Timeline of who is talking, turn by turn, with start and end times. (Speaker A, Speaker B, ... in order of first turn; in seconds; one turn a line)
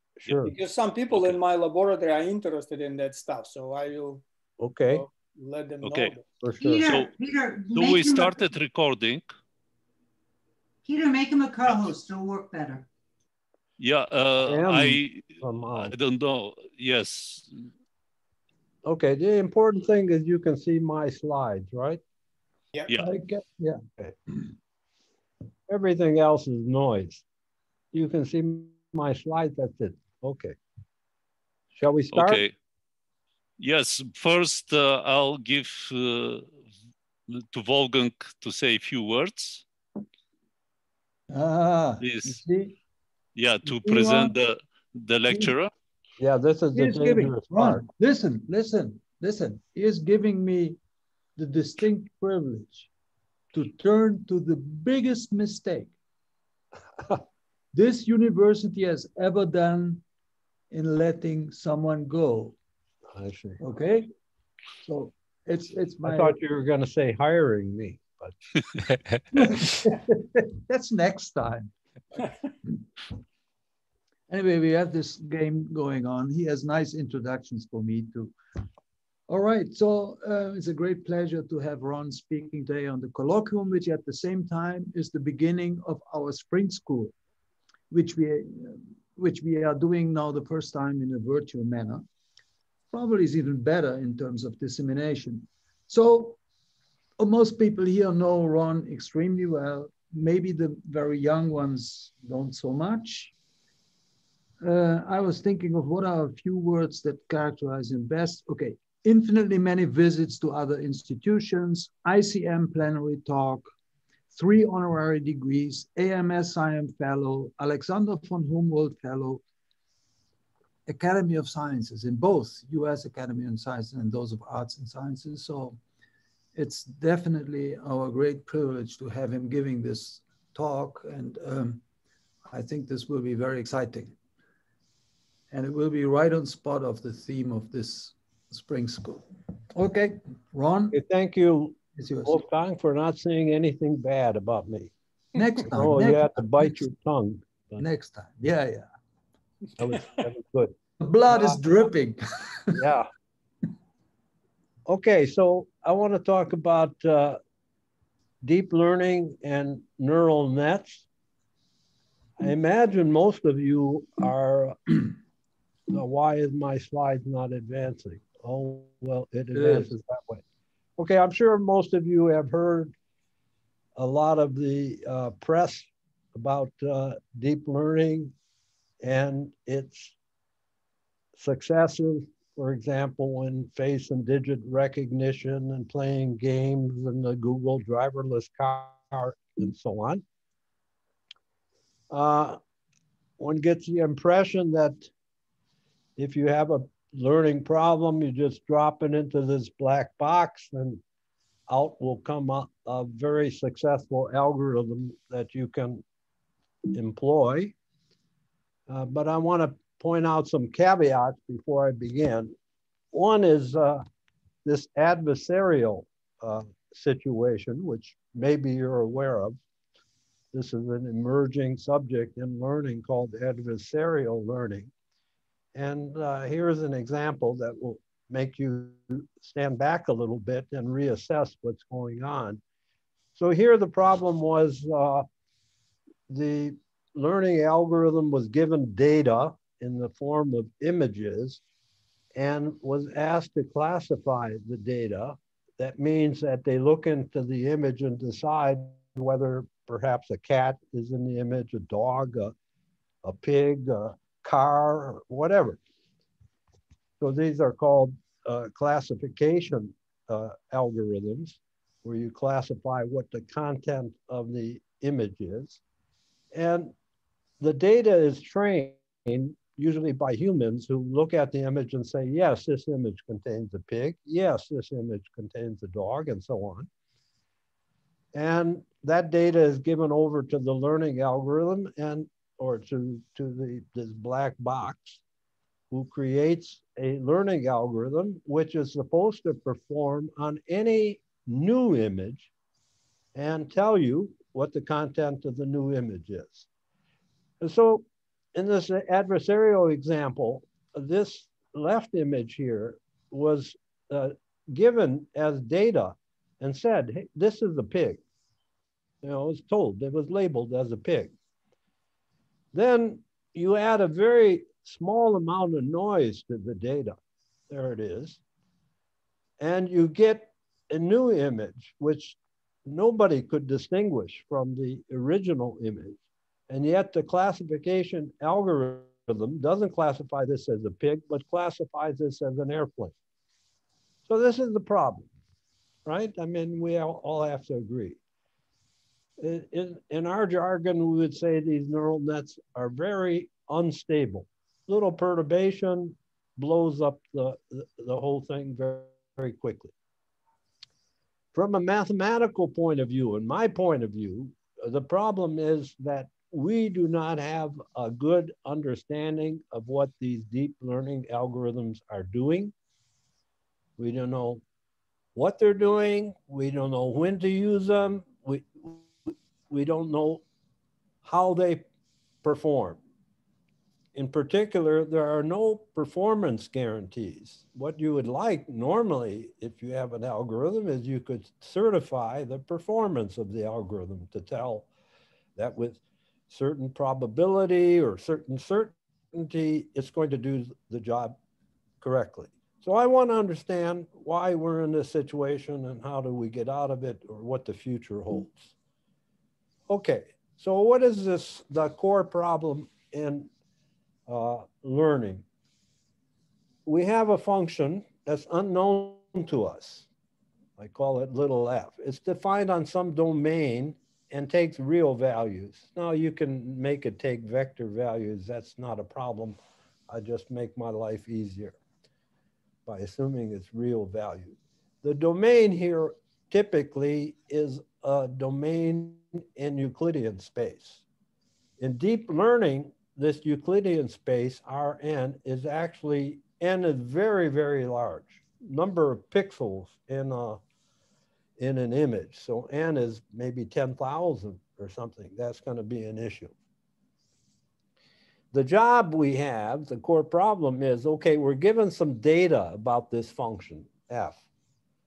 Speaker A: 0.2-0.5
Speaker B: 0.5-4.2
Speaker C: 1.1-1.4
Speaker A: 4.6-5.1
Speaker B: 4.9-6.2
Speaker C: 5.8-6.2
Speaker A: 6.4-7.0
Speaker D: 6.6-8.4
Speaker C: 6.8-7.1
Speaker C: 7.7-9.3
Speaker D: 10.8-12.8
Speaker C: 13.8-17.5
Speaker A: 14.4-15.9
Speaker A: 18.9-22.0
Speaker E: 23.0-23.8
Speaker A: 25.7-27.2
Speaker A: 27.9-30.6
Speaker A: 31.8-32.4
Speaker C: 32.1-32.5
Speaker C: 33.6-36.5
Speaker C: 37.3-39.6
Speaker E: 41.3-42.8
Speaker C: 42.0-42.4
Speaker C: 43.4-45.7
Speaker E: 43.7-44.4
Speaker E: 45.3-45.5
Speaker A: 46.2-47.9
Speaker E: 46.7-50.8
Speaker E: 51.4-52.9
Speaker E: 53.5-55.9
Speaker E: 57.7-60.0
Speaker E: 60.7-62.6
Speaker A: 63.1-63.6
Speaker E: 63.6-64.1
Speaker E: 64.8-66.4
Speaker A: 66.0-68.3
Speaker E: 69.3-72.8
Speaker E: 74.3-78.3
Speaker E: 79.3-87.1
Speaker E: 87.9-92.0
Speaker E: 92.9-96.4
Speaker E: 97.2-103.3
Speaker E: 104.6-113.7
Speaker E: 114.3-119.4
Speaker E: 120.9-125.8
Speaker E: 126.5-131.8
Speaker E: 132.5-134.2
Speaker E: 135.5-141.0
Speaker A: 140.9-144.9
Speaker E: 141.9-142.4
Speaker E: 145.3-146.7
Speaker A: 145.6-147.8
Speaker E: 147.8-148.9
Speaker A: 149.8-150.8
Speaker E: 151.0-152.8
Speaker A: 151.3-151.6
Speaker A: 152.7-153.1
Speaker A: 154.9-157.4
Speaker A: 158.4-161.1
Speaker A: 162.4-165.1
Speaker A: 165.9-170.4
Speaker E: 169.5-169.9
Speaker A: 171.0-172.9
Speaker A: 174.0-178.3
Speaker A: 179.0-180.2
Speaker A: 181.4-190.2
Speaker A: 192.1-192.6
Speaker A: 193.4-195.1
Speaker A: 196.2-201.0
Speaker A: 201.7-206.0
Speaker A: 206.9-207.7
Speaker A: 208.9-212.5
Speaker A: 213.1-214.0
Speaker A: 214.7-219.6
Speaker A: 220.5-224.9
Speaker A: 225.7-232.6
Speaker A: 233.4-235.3
Speaker A: 236.3-241.6
Speaker A: 242.4-252.5
Speaker A: 253.2-255.8
Speaker A: 257.2-265.8
Speaker A: 266.5-266.9
Speaker A: 267.6-276.9
Speaker A: 278.3-285.2
Speaker A: 285.9-292.5
Speaker A: 293.4-296.7
Speaker A: 297.6-308.2
Speaker A: 309.2-311.3
Speaker A: 312.7-317.2
Speaker A: 317.7-318.4
Speaker A: 319.6-326.2
Speaker A: 326.7-333.1
Speaker A: 334.3-335.3
Speaker A: 336.1-338.2
Speaker A: 339.4-349.9
Speaker A: 351.5-362.7
Speaker A: 364.0-364.6
Speaker A: 365.4-370.4
Speaker A: 371.2-371.9
Speaker A: 372.4-373.0
Speaker A: 374.1-384.9
Speaker A: 385.6-391.4
Speaker A: 392.0-398.7
Speaker A: 399.9-403.5
Speaker A: 404.3-405.4
Speaker A: 406.9-410.1
Speaker A: 410.8-419.6
Speaker A: 420.1-421.8
Speaker A: 422.9-431.0
Speaker A: 431.8-440.6
Speaker A: 441.6-446.5
Speaker A: 448.5-454.4